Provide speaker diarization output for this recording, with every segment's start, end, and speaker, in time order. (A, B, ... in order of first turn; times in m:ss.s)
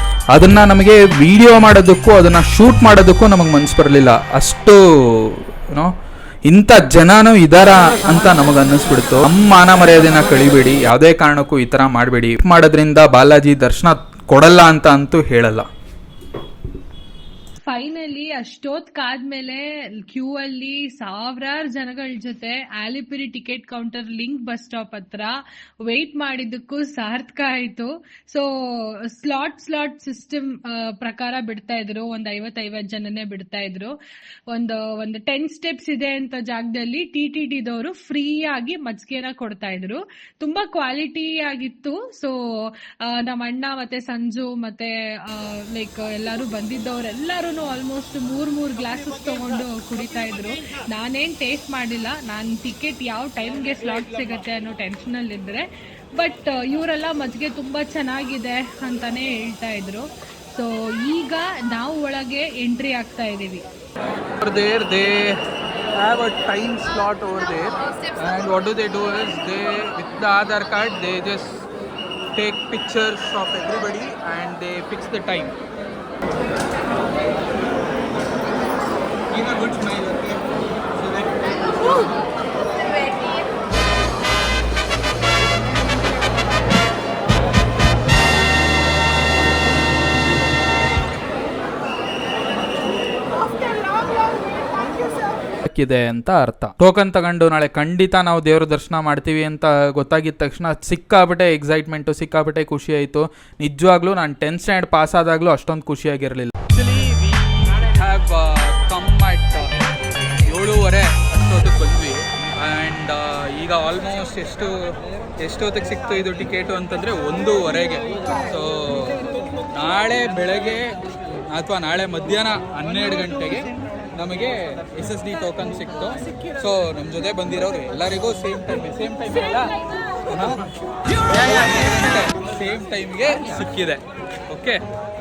0:00.3-0:05.9 A
0:06.5-0:15.7 A
0:17.7-0:25.3 B
0:25.9-0:34.0 B
0:34.5-0:42.3 B
0:43.1-1:03.6 B
1:04.4-1:05.4 C
1:06.0-1:11.6 C
1:12.4-1:15.5 C
1:19.3-1:20.4 C
1:33.6-1:35.2 B
1:35.7-1:46.5 A
1:46.7-1:49.7 C
1:50.5-1:59.2 C
1:59.7-2:00.9 C
2:01.5-2:09.7 C
2:10.3-2:10.6 C
2:11.3-2:14.8 C